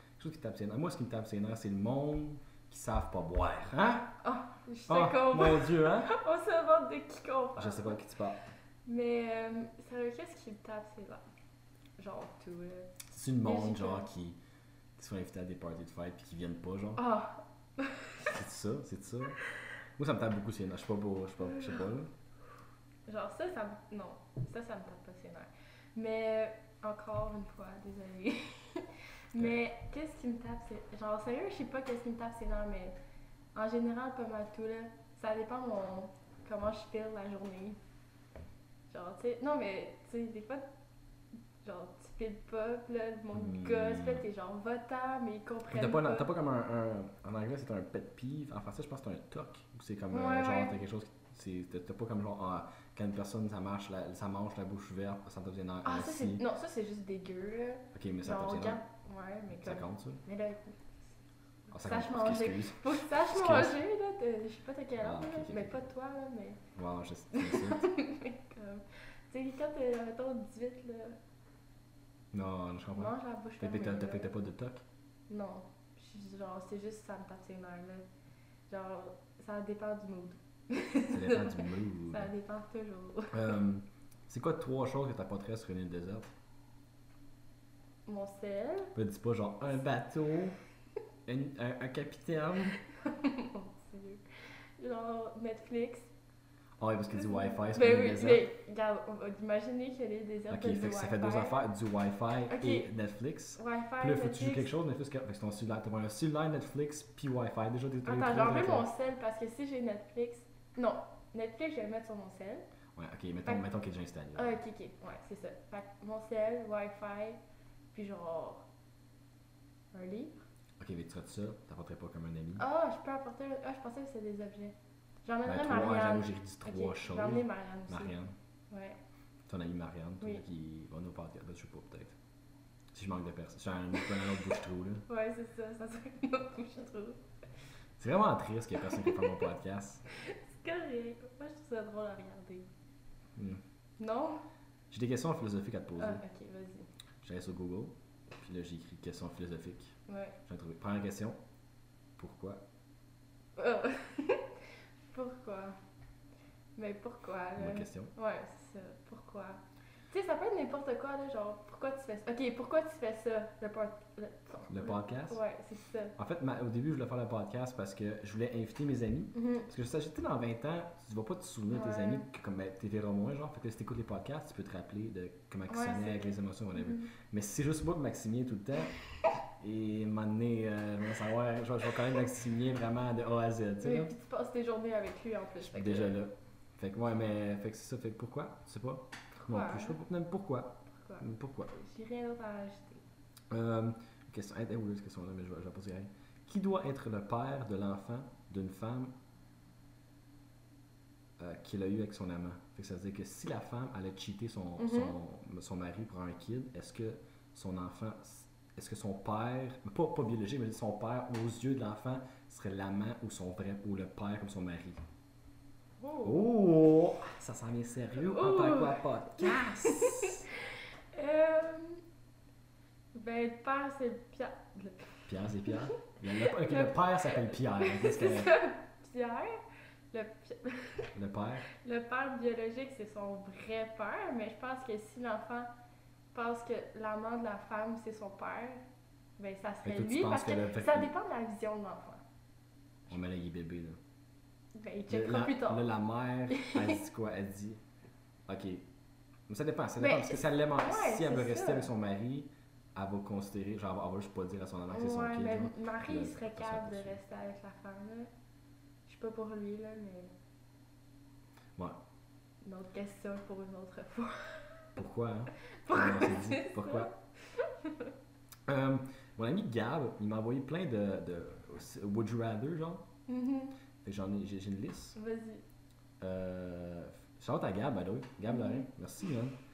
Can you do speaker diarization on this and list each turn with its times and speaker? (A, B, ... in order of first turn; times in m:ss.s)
0:00.2-0:04.2 A
0:04.2-0:08.0 B
0:04.9-0:06.1 A
0:07.6-0:08.4 A
0:08.8-0:11.2 B
0:12.0-0:12.9 B
0:13.1-0:14.4 A
0:13.4-0:14.1 B
0:15.0-0:17.0 A
0:17.0-0:18.3 B
0:18.3-0:19.4 A
0:20.0-0:22.1 A
0:21.4-0:21.8 B
0:23.1-0:33.0 B
0:29.3-0:29.6 A
0:33.5-0:37.8 B
0:38.9-0:40.6 B
0:41.6-0:46.3 B
0:43.3-0:44.2 A
0:45.7-0:56.4 A
0:50.1-0:50.8 B
0:55.8-1:01.0 B
0:57.9-0:58.8 A
0:59.5-1:00.2 A
1:01.7-1:03.8 A
1:01.7-1:06.6 B
1:05.0-1:05.8 A
1:06.8-1:07.9 A
1:07.3-1:11.2 B
1:12.3-1:14.8 A
1:12.9-1:14.3 B
1:15.3-1:18.0 B
1:18.7-1:23.5 B
1:21.1-1:22.3 A
1:23.3-1:26.3 A
1:28.0-1:28.9 B
1:28.9-1:30.6 A
1:31.3-1:32.8 A
1:33.0-1:34.2 B
1:34.8-1:36.1 B
1:36.8-1:38.4 A
1:37.1-1:41.6 B
1:40.5-1:48.9 A
1:42.5-1:42.9 B
1:43.6-1:44.7 B
1:48.0-1:52.7 B
1:53.0-1:54.6 A
1:54.4-1:57.4 B
1:57.9-1:58.6 B
1:59.9-2:00.4 B
2:00.8-2:02.6 A
2:02.6-2:08.2 B
2:05.4-2:08.3 A
2:08.7-2:09.0 B
2:09.5-2:12.2 A
2:12.9-2:15.0 A
2:15.1-2:17.2 B
2:18.0-2:20.0 A
2:18.8-2:19.4 B
2:20.2-2:22.7 B
2:23.4-2:23.6 A
2:24.0-2:24.4 B
2:24.9-2:26.2 A
2:26.0-2:26.9 B
2:27.2-2:30.0 A
2:30.1-2:30.4 B
2:30.5-2:31.4 A
2:32.2-2:32.6 A
2:33.6-2:34.6 B
2:35.1-2:35.8 B
2:36.8-2:46.1 B
2:37.6-2:38.1 A
2:44.7-2:45.4 A
2:46.2-2:59.0 A
2:49.3-2:49.7 B
2:51.7-2:52.2 B
2:55.7-2:57.1 B
2:59.6-3:04.1 A
3:03.8-3:06.2 B
3:05.6-3:11.7 A
3:09.3-3:10.0 B
3:11.0-3:13.0 B
3:13.5-3:19.1 A
3:21.4-3:35.0 A
3:24.8-3:25.2 B
3:36.0-3:36.5 B
3:36.2-3:40.5 A
3:38.2-3:40.4 B
3:41.1-3:42.0 B
3:43.1-3:45.8 B
3:45.3-3:48.5 A
3:46.4-3:49.6 B
3:50.1-3:51.1 B
3:51.1-3:51.7 A
3:51.7-3:55.7 B
3:56.3-3:58.8 B
3:59.4-4:02.2 B
3:59.8-4:01.1 A
4:03.1-4:04.0 A
4:04.8-4:05.9 B
4:05.1-4:07.8 A
4:06.5-4:07.0 B
4:08.5-4:08.9 A
4:09.5-4:17.2 A
4:10.0-4:11.9 B
4:14.9-4:18.3 B
4:19.1-4:20.3 B
4:22.6-4:24.8 B
4:25.0-4:27.1 A
4:25.8-4:28.1 B
4:28.7-4:33.0 A
4:33.3-4:33.8 B
4:34.0-4:35.2 A
4:35.2-4:35.6 B
4:36.2-4:39.6 A
4:38.5-4:38.9 B